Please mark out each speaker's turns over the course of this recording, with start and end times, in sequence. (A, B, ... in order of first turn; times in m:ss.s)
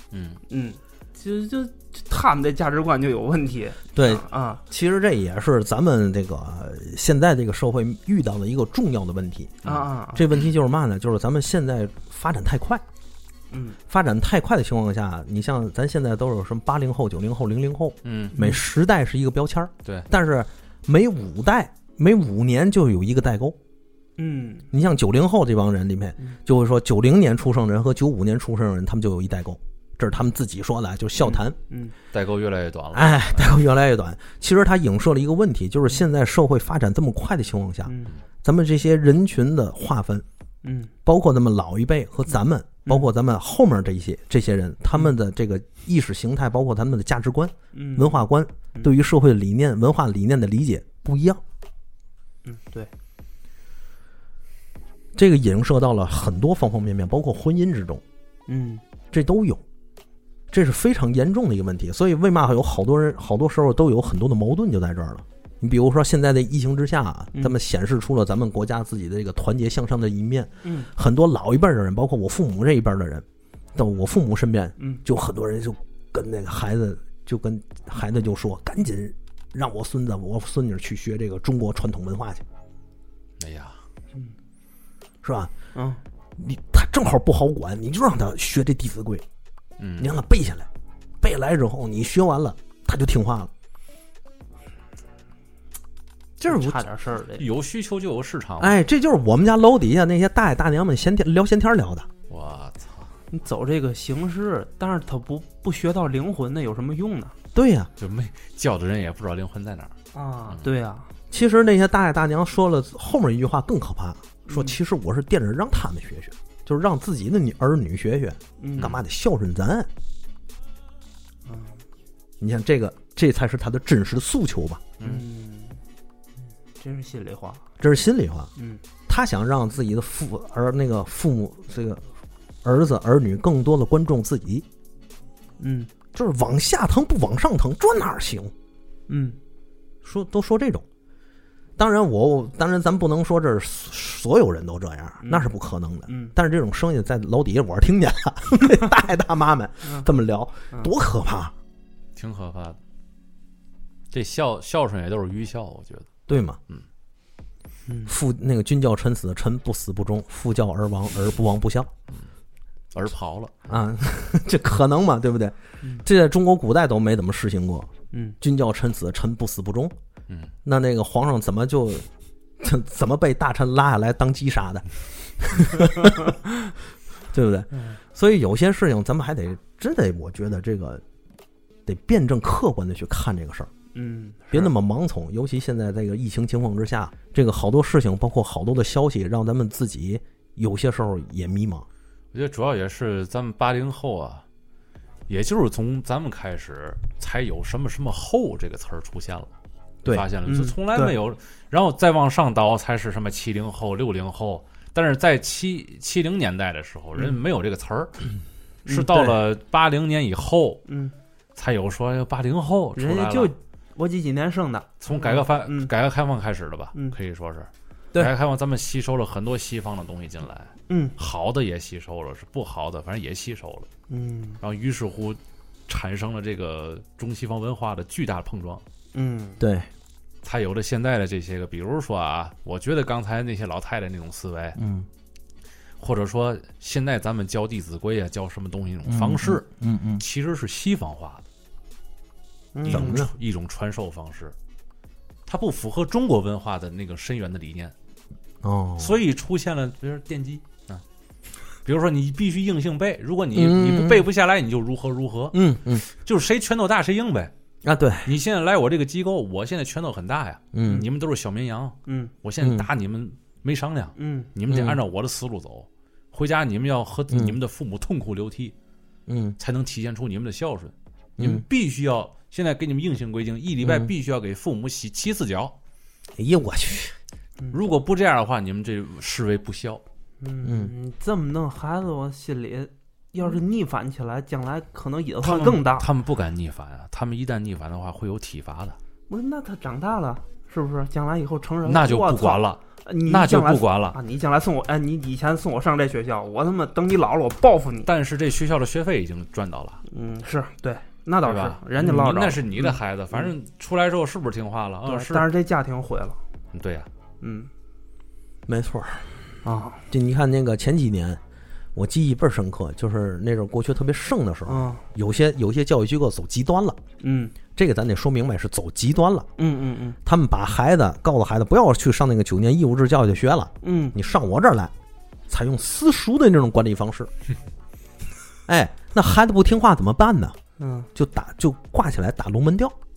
0:00.1-0:00.4 A
0:00.5-0:04.6 B
0:03.9-0:12.8 C
0:09.6-0:09.9 A
0:09.6-0:10.3 B
0:13.5-0:13.8 B
0:13.9-0:23.6 C
0:18.0-0:18.4 A
0:18.3-0:18.6 B
0:24.2-0:24.7 B
0:24.7-0:31.6 C
0:31.2-0:32.0 B
0:32.1-0:33.6 A
0:32.9-0:40.2 C
0:37.9-0:38.2 B
0:40.6-0:40.9 B
0:41.0-0:51.4 C
0:47.7-0:48.2 B
0:52.4-0:52.9 B
0:55.2-0:58.0 C
0:58.5-0:58.8 B
0:59.1-0:59.6 C
1:00.5-1:13.2 C
1:10.6-1:10.9 B
1:13.8-1:22.4 C
1:23.4-1:23.8 A
1:25.2-1:25.5 C
1:25.8-1:26.0 B
1:26.4-1:29.2 C
1:29.8-1:30.1 A
1:30.0-1:30.7 C
1:31.2-1:33.5 C
1:36.4-1:36.8 C
1:36.4-1:37.5 B
1:37.4-1:38.8 A
1:38.6-1:42.1 C
1:42.3-1:43.1 A
1:43.3-1:47.3 B
1:47.5-1:47.9 C
1:48.0-1:49.9 A
1:50.1-1:51.1 B
1:51.3-1:59.9 C
1:54.5-1:54.8 B
1:58.6-1:58.9 B
2:01.5-2:01.8 B
2:02.4-2:04.9 C
2:05.0-2:05.8 B
2:06.8-2:07.6 B
2:07.8-2:08.5 C
2:08.6-2:08.8 B
2:09.1-2:12.1 C
2:12.6-2:14.7 C
2:15.6-2:15.9 B
2:16.1-2:18.5 C
2:19.1-2:19.4 B
2:20.0-2:20.8 C
2:21.8-2:31.5 C
2:25.2-2:25.5 B
2:26.1-2:26.3 B
2:32.2-2:32.8 A
2:34.1-2:36.1 A
2:36.3-2:36.6 C
2:37.9-2:38.2 B
2:38.1-2:41.9 C
2:42.9-2:43.6 A
2:43.7-2:47.9 C
2:48.1-2:48.4 B
2:48.4-2:50.0 C
2:50.6-2:52.1 C
2:52.6-2:54.8 C
2:55.4-2:56.3 C
2:57.3-3:01.0 C
3:01.9-3:03.7 C
3:03.9-3:04.7 B
3:04.5-3:11.9 C
3:12.3-3:14.4 A
3:15.3-3:19.5 A
3:20.1-3:28.3 A
3:20.5-3:21.2 B
3:28.9-3:30.8 A
3:29.1-3:29.4 C
3:30.9-3:31.1 B
3:31.6-3:33.5 A
3:33.0-3:35.9 B
3:35.0-3:43.9 A
3:40.9-3:41.2 B
3:44.1-3:44.6 B
3:44.6-3:48.8 A
3:49.1-3:49.6 B
3:49.6-3:49.9 C
3:50.4-3:54.8 A
3:54.8-3:55.1 C
3:56.0-3:59.6 A
3:59.1-4:00.2 C
4:00.2-4:01.5 A
4:02.8-4:03.2 B
4:02.9-4:03.3 C
4:02.9-4:04.6 A
4:05.5-4:07.9 A
4:08.6-4:09.2 C
4:09.0-4:11.0 A
4:11.8-4:17.5 A
4:13.5-4:14.2 C
4:15.5-4:16.0 C
4:17.8-4:18.3 C
4:18.3-4:28.7 A
4:20.7-4:21.1 C
4:22.1-4:22.3 B
4:22.6-4:22.9 C
4:24.2-4:24.5 B
4:24.7-4:25.0 C
4:27.3-4:27.6 C
4:29.3-4:29.6 C
4:29.6-4:35.8 A
4:31.4-4:31.6 C
4:33.8-4:34.1 C
4:36.4-4:37.2 C
4:37.7-4:40.0 A
4:40.4-4:46.1 B
4:40.6-4:40.9 C
4:45.4-4:49.0 A
4:49.3-4:58.1 B
4:51.8-4:54.2 A
4:58.1-5:00.0 A
5:00.1-5:03.5 B
5:01.4-5:05.5 A
5:05.1-5:06.4 B
5:06.7-5:07.1 A
5:07.4-5:07.7 B
5:08.7-5:09.3 C
5:09.6-5:10.0 B
5:10.1-5:11.4 C
5:12.0-5:17.0 C
5:14.7-5:15.0 B
5:17.2-5:17.6 B
5:17.8-5:19.5 C
5:19.6-5:20.2 B
5:20.2-5:24.9 C
5:23.8-5:24.2 B
5:25.5-5:27.3 C
5:28.7-5:30.6 C
5:30.8-5:31.1 B
5:31.2-5:33.0 C